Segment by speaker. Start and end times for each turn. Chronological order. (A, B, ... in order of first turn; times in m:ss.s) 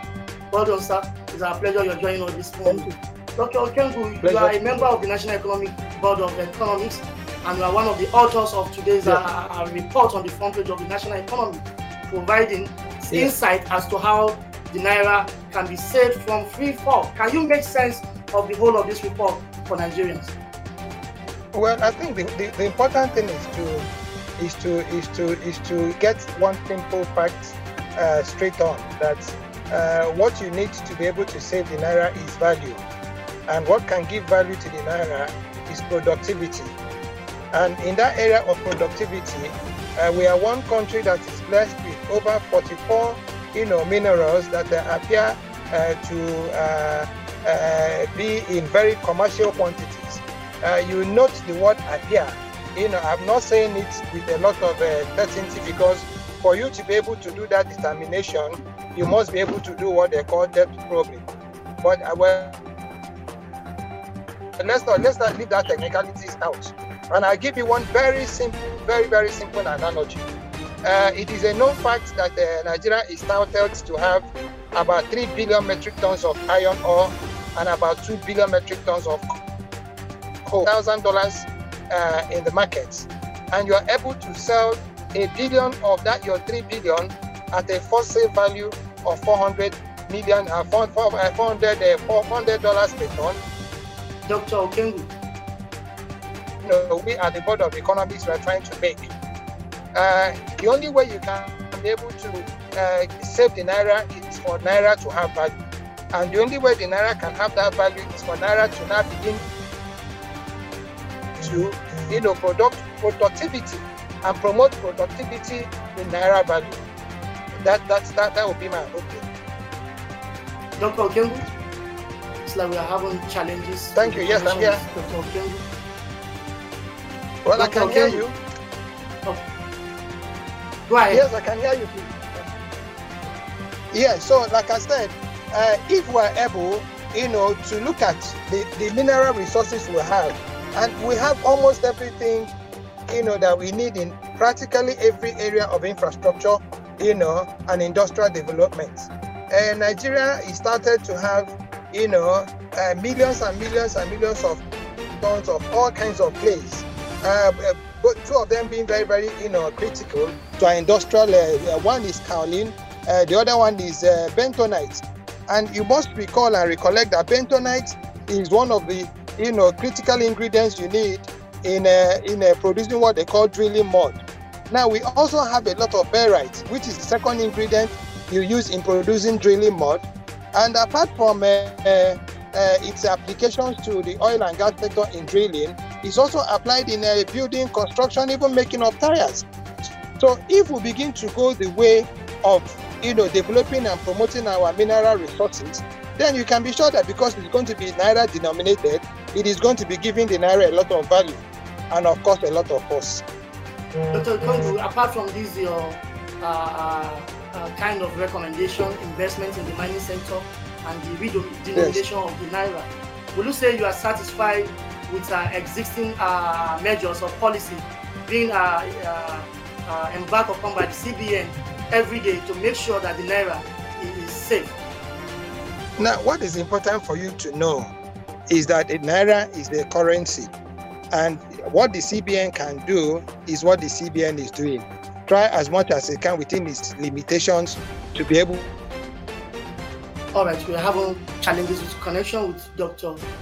0:00.5-0:20.4 A
0:02.7-0:03.0 B
0:04.2-0:04.9 B
0:21.5-0:32.8 B
0:33.5-0:36.8 B
0:37.5-1:01.2 B
1:01.8-1:02.5 B
1:04.6-1:10.2 B
1:10.8-1:19.4 B
1:20.4-1:33.4 B
1:34.2-1:35.1 A
1:36.6-1:39.1 B
1:40.0-1:45.6 B
1:46.1-1:49.5 B
1:51.4-1:56.8 B
1:57.6-1:59.2 B
2:00.8-2:01.5 A
2:02.4-2:05.7 A
2:04.0-2:04.8 B
2:07.4-2:08.4 B
2:07.5-2:08.2 A
2:10.9-2:11.2 A
2:11.1-2:12.5 B
2:13.9-2:22.5 B
2:23.1-2:34.6 B
2:35.2-2:54.2 B
2:54.7-3:09.5 B
3:10.2-3:23.2 B
3:24.1-3:44.8 A
3:31.8-3:32.0 B
3:46.0-3:47.9 B
3:48.5-3:50.5 B
3:51.1-3:58.8 B
4:00.3-4:03.2 A